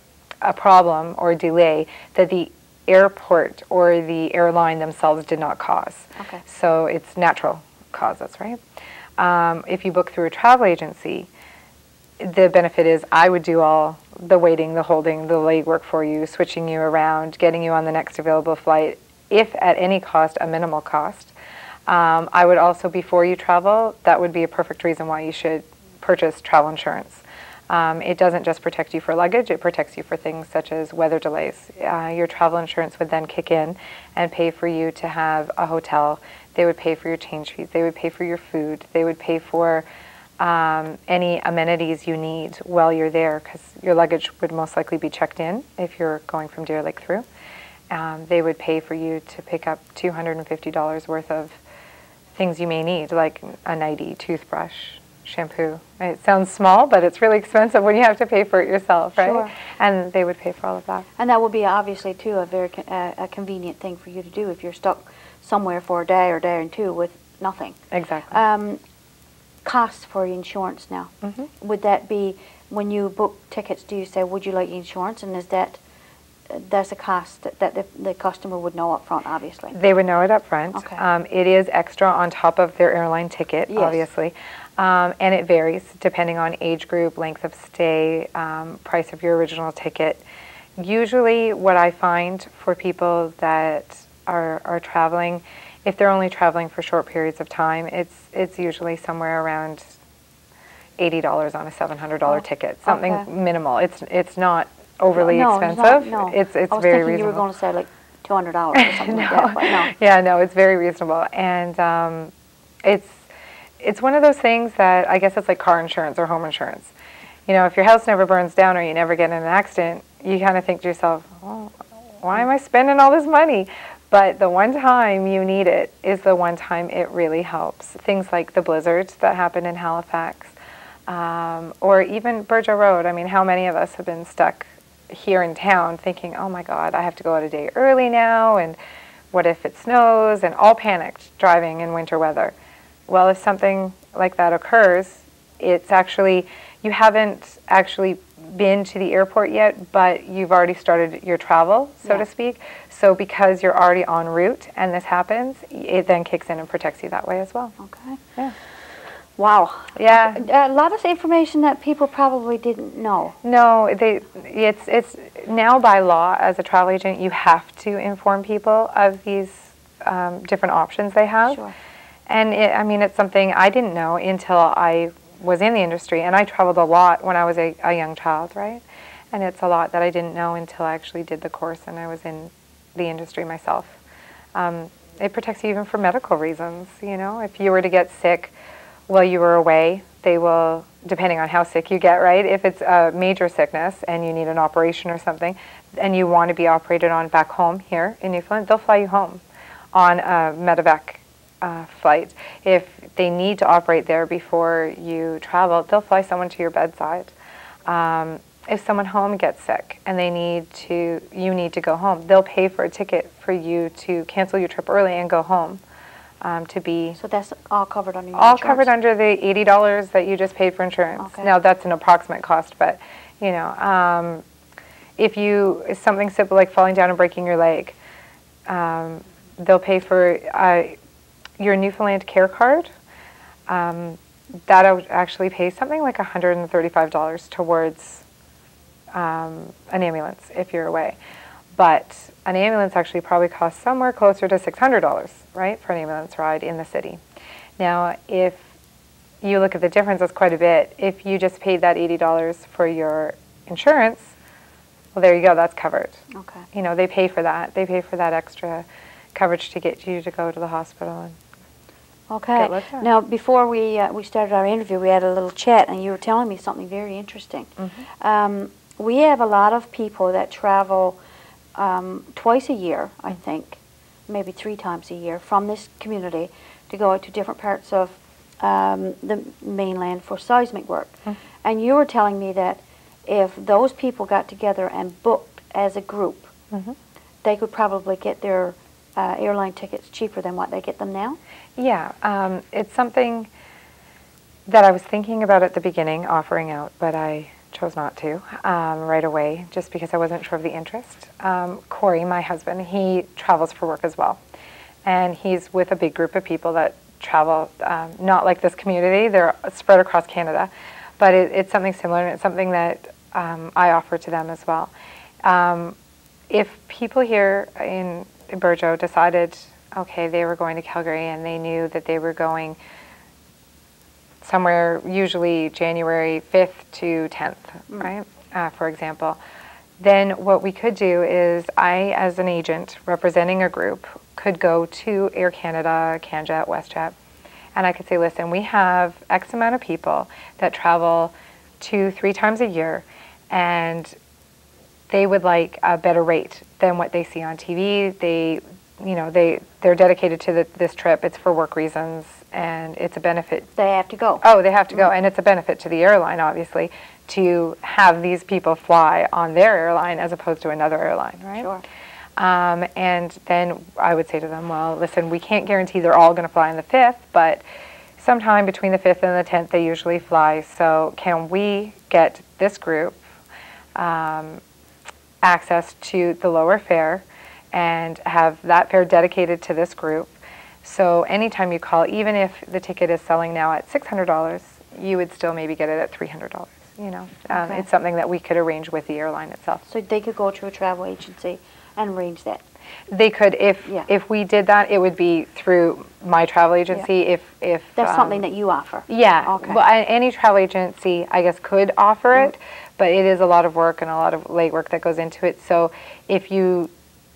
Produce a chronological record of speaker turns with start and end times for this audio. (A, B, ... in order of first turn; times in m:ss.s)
0:00.4-0:08.6 A
0:06.2-0:06.4 B
0:09.2-0:11.3 A
0:12.2-0:21.3 A
0:21.9-0:39.9 A
0:40.4-0:47.2 A
0:47.9-0:51.6 A
0:52.4-1:01.1 A
0:59.2-0:59.5 B
1:01.2-1:07.8 B
1:07.9-1:08.4 A
1:08.3-1:08.8 B
1:09.6-1:15.8 B
1:11.2-1:11.5 A
1:16.5-1:19.8 B
1:19.7-1:30.2 A
1:20.7-1:21.0 B
1:23.7-1:24.0 B
1:30.8-1:39.9 A
1:41.0-1:47.4 A
1:42.3-1:43.3 B
1:45.2-1:49.9 B
1:48.8-1:52.3 A
1:52.8-1:53.2 A
1:53.8-1:56.9 A
1:57.5-2:10.5 A
2:11.1-2:18.8 A
2:19.3-2:22.5 A
2:23.1-2:37.8 A
2:37.8-2:38.2 B
2:39.4-2:43.4 B
2:40.0-2:40.4 A
2:43.4-2:51.6 A
2:51.5-2:51.7 B
2:52.3-3:03.9 A
3:04.6-3:08.5 A
3:09.1-3:19.4 A
3:19.9-3:27.3 A
3:27.9-3:35.8 A
3:36.4-3:37.2 A
3:37.2-3:38.9 B
3:38.4-3:44.4 A
3:41.2-3:41.5 B
3:45.2-3:48.0 A
3:48.7-3:51.0 A
3:51.6-3:52.9 A
3:53.7-3:58.2 A
3:59.1-4:01.2 A
4:01.7-4:07.2 A
4:07.8-4:08.6 A
4:09.4-4:14.3 A
4:15.2-4:16.2 A
4:16.3-4:16.6 B
4:16.7-4:21.4 A
4:22.3-4:31.2 B
4:22.6-4:23.1 A
4:27.8-4:28.0 A
4:31.8-4:46.5 B
4:46.7-4:47.0 A
4:47.4-4:51.4 B
4:51.8-4:53.5 A
4:54.7-5:04.4 A
5:05.0-5:14.9 A
5:15.4-5:16.0 A
5:16.5-5:22.8 A
5:24.4-5:29.4 A
5:30.0-5:37.1 A
5:37.8-5:44.2 A
5:45.1-5:53.7 A
5:53.8-5:55.1 B
5:54.4-6:01.7 A
6:01.6-6:01.8 B
6:02.4-6:07.6 A
6:08.2-6:13.2 A
6:14.0-6:14.6 A
6:15.4-6:20.3 A
6:20.8-6:29.8 A
6:27.5-6:27.8 B
6:29.9-6:32.6 B
6:33.1-6:38.4 A
6:38.0-6:39.8 B
6:39.1-6:46.9 A